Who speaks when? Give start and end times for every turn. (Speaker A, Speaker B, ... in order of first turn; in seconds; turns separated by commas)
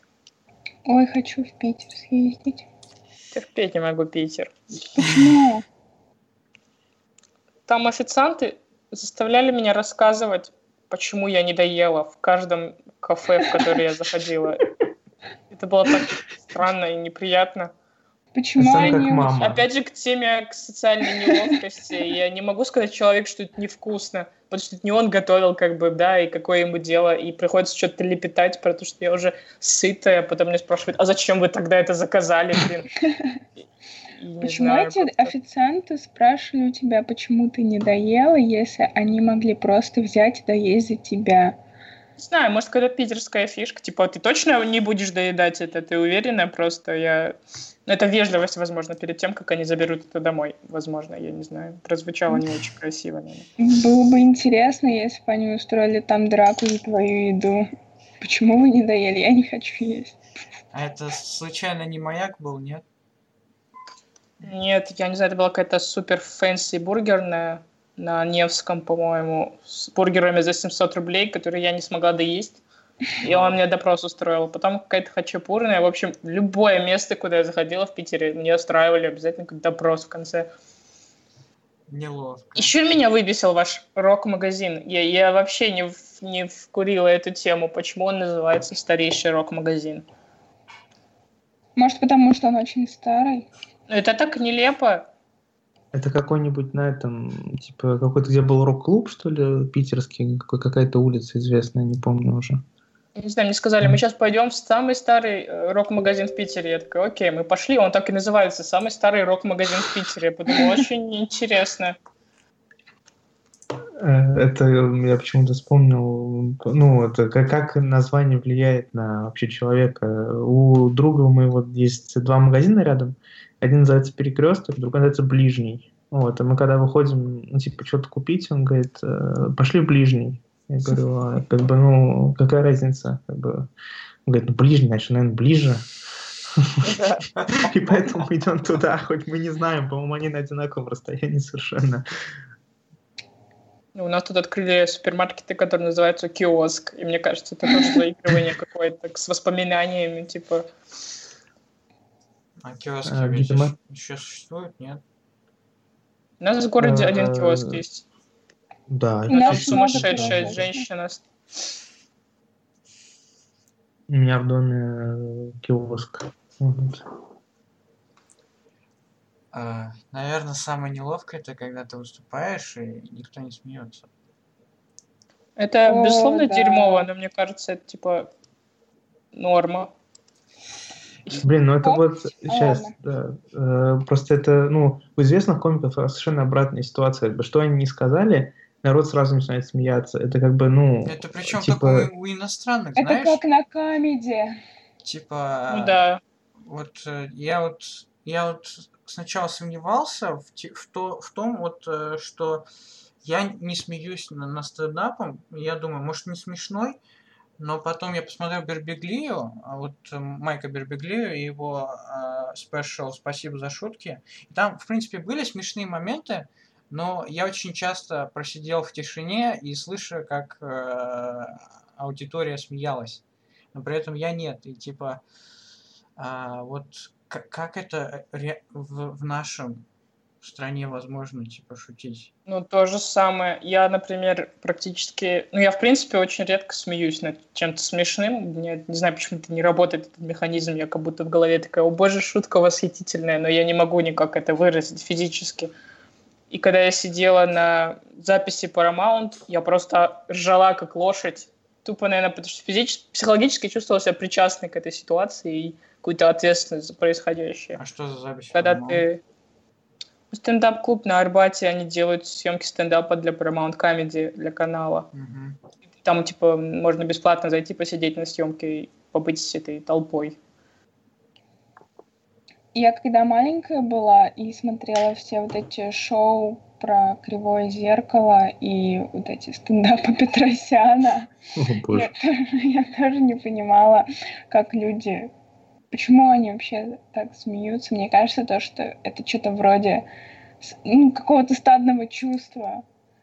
Speaker A: 0.8-2.6, Speaker B: 3.3-4.5, Speaker A: 5.0-5.6, Speaker B: 7.7-14.6, Speaker B: 15.5-17.7, Speaker A: 18.3-19.3, Speaker C: 18.6-19.6, Speaker B: 18.8-32.9, Speaker B: 34.1-35.3, Speaker A: 34.4-41.6, Speaker B: 42.2-53.5, Speaker A: 53.6-57.7, Speaker A: 58.2-60.2, Speaker D: 60.7-62.8, Speaker B: 64.4-72.6, Speaker D: 73.2-73.6, Speaker B: 73.2-80.5, Speaker D: 81.9-82.8, Speaker B: 82.5-90.0, Speaker A: 91.8-93.5, Speaker B: 93.9-95.1, Speaker C: 95.9-102.6, Speaker B: 103.2-112.0, Speaker C: 114.0-133.7, Speaker C: 134.2-135.8, Speaker C: 136.5-142.1, Speaker B: 136.8-137.2, Speaker B: 143.9-150.7, Speaker D: 152.6-155.0, Speaker C: 153.1-153.7, Speaker B: 156.4-158.0, Speaker C: 156.8-157.8, Speaker C: 158.9-160.6, Speaker B: 159.3-161.2, Speaker A: 159.3-160.8, Speaker C: 164.1-167.0, Speaker D: 169.5-174.1, Speaker B: 175.6-178.3, Speaker A: 175.9-177.1, Speaker B: 179.3-179.9, Speaker C: 181.4-192.1, Speaker A: 181.8-182.9, Speaker D: 191.0-193.4, Speaker A: 193.0-194.5, Speaker D: 195.0-196.0, Speaker B: 195.7-196.2, Speaker D: 196.6-202.7, Speaker D: 203.2-207.0, Speaker D: 207.6-223.2, Speaker D: 223.7-225.2, Speaker D: 226.2-229.8, Speaker D: 230.4-232.3, Speaker B: 232.5-245.7, Speaker B: 246.5-257.8, Speaker D: 257.8-259.1, Speaker B: 258.5-259.2, Speaker B: 260.3-265.1, Speaker D: 265.1-265.6, Speaker B: 266.0-270.4, Speaker A: 272.7-281.3, Speaker C: 281.6-282.1, Speaker A: 281.9-285.3, Speaker A: 285.9-290.1, Speaker A: 290.6-292.8